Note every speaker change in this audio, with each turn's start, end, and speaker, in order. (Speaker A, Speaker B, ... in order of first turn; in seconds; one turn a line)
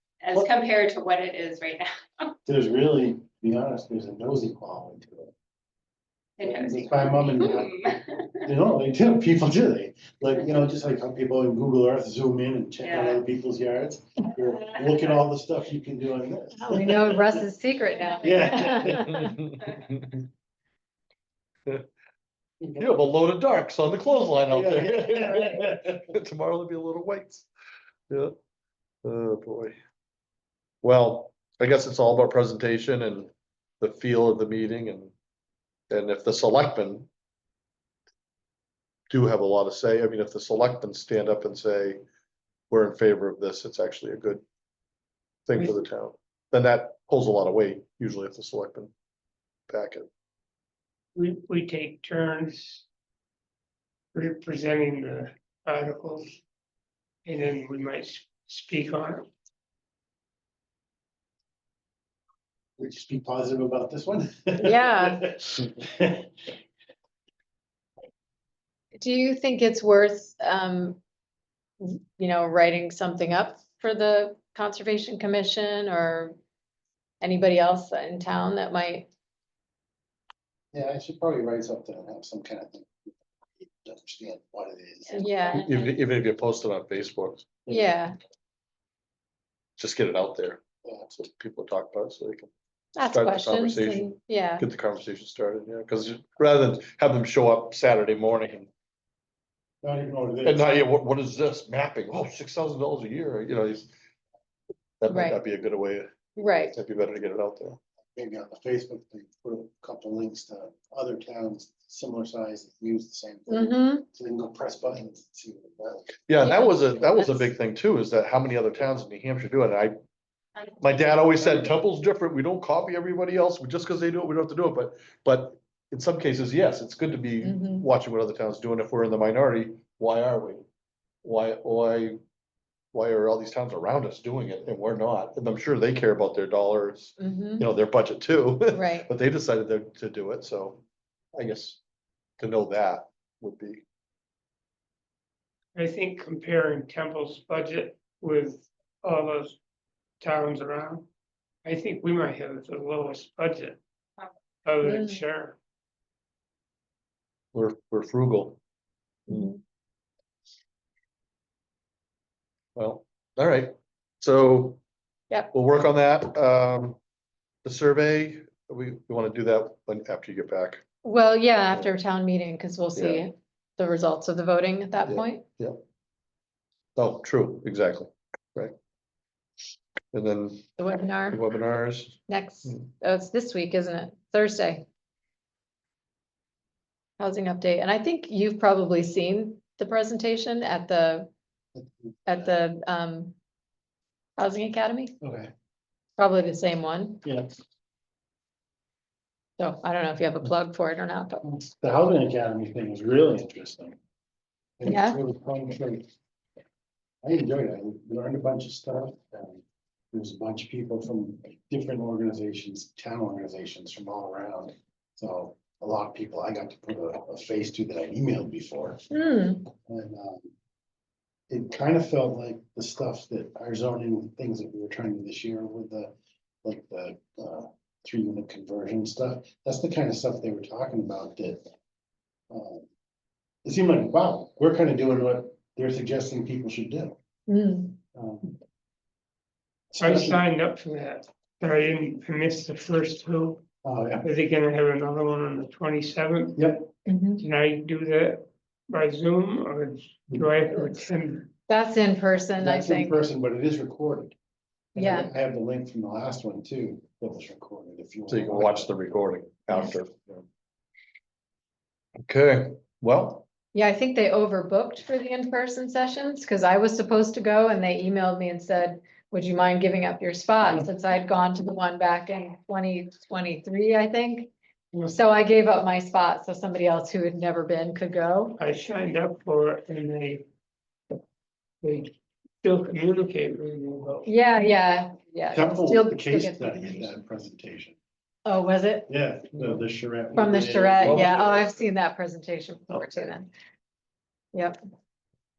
Speaker A: 0.2-2.4
Speaker B: 2.5-5.3
Speaker A: 6.4-8.5
Speaker B: 6.4-17.3
Speaker A: 12.8-13.2
Speaker C: 16.6-19.3
Speaker A: 18.0-18.6
Speaker B: 18.2-19.1
Speaker D: 19.1-20.1
Speaker B: 22.6-23.0
Speaker D: 22.8-27.5
Speaker B: 24.5-26.0
Speaker D: 29.0-29.8
Speaker D: 30.8-35.1
Speaker D: 35.9-37.1
Speaker D: 39.1-42.0
Speaker D: 42.7-44.4
Speaker D: 45.5-48.9
Speaker D: 49.7-50.1
Speaker E: 51.1-52.9
Speaker E: 54.1-56.4
Speaker E: 57.2-59.3
Speaker B: 62.8-66.3
Speaker C: 64.6-65.2
Speaker C: 68.9-71.0
Speaker C: 71.8-76.3
Speaker C: 77.2-79.1
Speaker B: 80.7-85.4
Speaker A: 85.1-86.0
Speaker C: 85.1-85.6
Speaker D: 85.6-87.5
Speaker C: 87.7-88.2
Speaker D: 89.8-92.5
Speaker C: 93.0-94.7
Speaker D: 93.0-98.7
Speaker B: 99.8-100.7
Speaker D: 100.4-103.9
Speaker D: 105.0-106.1
Speaker C: 105.1-105.4
Speaker C: 106.3-106.7
Speaker D: 106.7-107.8
Speaker B: 108.1-116.2
Speaker C: 113.5-114.0
Speaker D: 116.3-119.9
Speaker C: 116.4-117.5
Speaker A: 120.5-121.6
Speaker D: 120.8-130.6
Speaker C: 127.4-127.9
Speaker D: 131.2-132.2
Speaker D: 132.9-140.8
Speaker C: 137.2-137.7
Speaker C: 138.7-139.1
Speaker D: 141.3-141.8
Speaker D: 142.4-143.8
Speaker E: 145.7-149.6
Speaker E: 150.2-151.1
Speaker E: 151.6-153.8
Speaker E: 154.6-155.6
Speaker C: 154.8-155.2
Speaker D: 157.5-158.6
Speaker C: 159.3-159.6
Speaker D: 162.8-164.8
Speaker D: 165.5-167.0
Speaker D: 167.6-170.8
Speaker C: 171.0-175.4
Speaker D: 172.9-173.2
Speaker D: 175.1-175.8
Speaker D: 176.9-178.7
Speaker D: 180.1-180.7
Speaker C: 180.8-181.4
Speaker D: 181.3-182.8
Speaker C: 182.3-184.8
Speaker C: 187.2-191.3
Speaker B: 191.8-192.1
Speaker C: 192.2-193.3
Speaker C: 194.4-195.1
Speaker B: 195.2-195.5
Speaker C: 196.2-197.2
Speaker B: 197.2-197.6
Speaker C: 199.6-201.4
Speaker B: 201.4-203.9
Speaker B: 204.8-206.1
Speaker C: 204.8-205.2
Speaker B: 207.2-219.0
Speaker C: 219.1-219.7
Speaker B: 219.8-220.5
Speaker B: 221.5-226.1
Speaker B: 226.6-231.7
Speaker B: 232.5-232.8
Speaker B: 233.6-237.2
Speaker C: 237.5-237.9
Speaker B: 238.1-238.6
Speaker B: 239.9-240.4
Speaker E: 240.0-243.6
Speaker B: 243.8-244.2
Speaker E: 244.2-246.7
Speaker B: 246.6-246.9
Speaker C: 247.1-247.4
Speaker E: 247.4-251.5
Speaker C: 251.7-253.2
Speaker B: 252.6-254.3
Speaker B: 254.9-258.9
Speaker C: 254.9-255.3
Speaker D: 258.3-260.2
Speaker D: 262.2-263.4
Speaker C: 263.7-274.5
Speaker C: 275.1-278.6
Speaker E: 278.6-280.4
Speaker E: 281.8-284.3
Speaker C: 284.2-287.2
Speaker B: 285.5-287.9
Speaker C: 288.4-289.1
Speaker B: 289.1-291.4
Speaker C: 290.3-293.5
Speaker D: 291.0-291.7
Speaker C: 294.5-294.8